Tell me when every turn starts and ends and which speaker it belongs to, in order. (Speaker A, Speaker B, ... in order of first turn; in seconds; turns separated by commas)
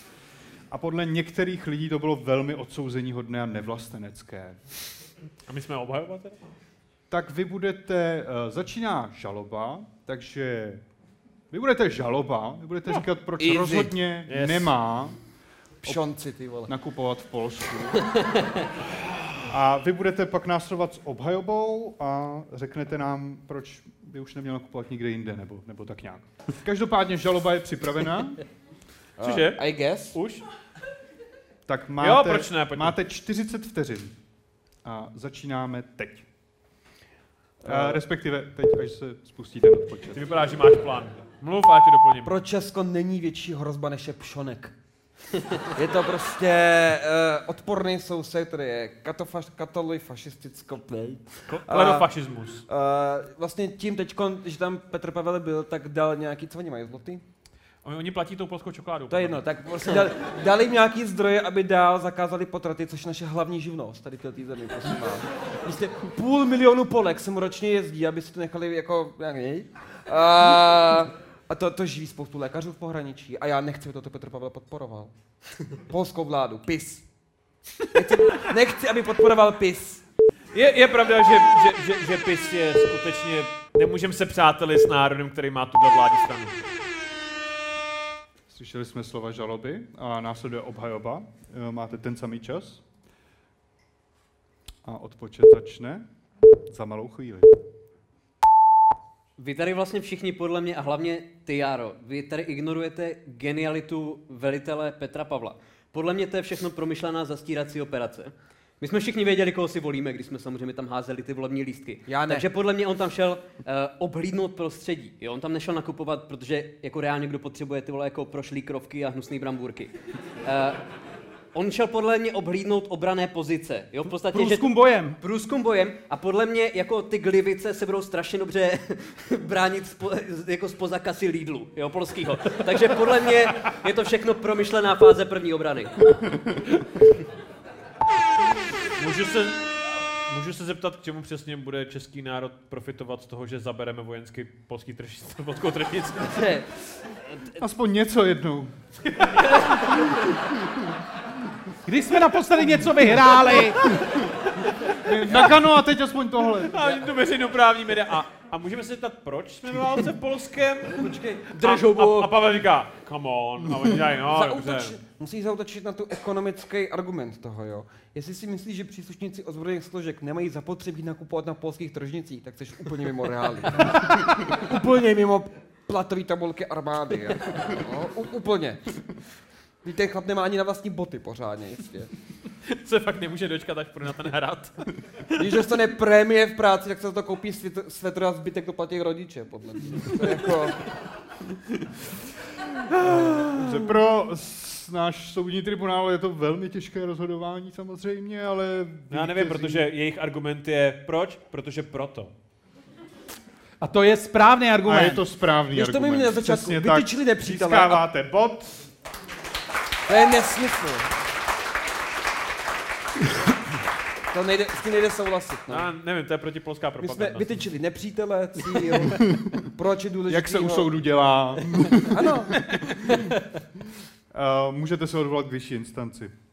Speaker A: 0.7-4.6, Speaker B: 5.5-6.4, Speaker A: 7.1-10.8, Speaker A: 11.5-15.2, Speaker C: 13.4-13.9, Speaker B: 14.3-14.7, Speaker C: 15.8-16.7, Speaker A: 16.7-18.1, Speaker A: 19.4-28.4, Speaker C: 29.2-30.2, Speaker B: 29.2-30.4, Speaker A: 31.7-34.2, Speaker B: 32.0-32.9, Speaker A: 34.8-36.3, Speaker A: 37.6-40.2, Speaker C: 37.6-38.0, Speaker B: 40.1-42.3, Speaker C: 42.2-44.7, Speaker C: 45.7-52.1, Speaker B: 51.5-52.6, Speaker C: 52.6-57.2, Speaker B: 57.8-59.4, Speaker C: 59.1-75.1, Speaker C: 75.8-77.1, Speaker C: 77.9-80.0, Speaker B: 80.5-86.6, Speaker A: 88.5-92.8, Speaker A: 94.8-96.0, Speaker A: 96.7-97.5, Speaker D: 99.4-120.8, Speaker C: 112.1-112.5, Speaker D: 121.5-124.7, Speaker A: 124.3-125.2, Speaker D: 125.2-136.0, Speaker B: 139.0-139.7, Speaker B: 140.3-146.5, Speaker D: 146.3-147.6, Speaker A: 147.6-148.8, Speaker B: 149.1-150.0, Speaker E: 151.9-153.9, Speaker A: 155.0-156.9, Speaker B: 156.6-165.0, Speaker C: 161.0-161.5, Speaker D: 161.5-162.3, Speaker C: 164.1-179.2, Speaker C: 179.8-182.1, Speaker B: 182.6-185.5, Speaker C: 185.4-190.9, Speaker A: 192.9-199.9, Speaker B: 199.1-202.3, Speaker E: 203.8-205.2, Speaker A: 204.8-208.9, Speaker C: 205.7-208.1, Speaker C: 210.1-211.1, Speaker C: 214.3-215.9, Speaker B: 215.7-217.6, Speaker C: 217.0-220.9, Speaker A: 219.0-219.6, Speaker A: 220.3-223.3, Speaker C: 222.1-222.8, Speaker A: 224.3-226.3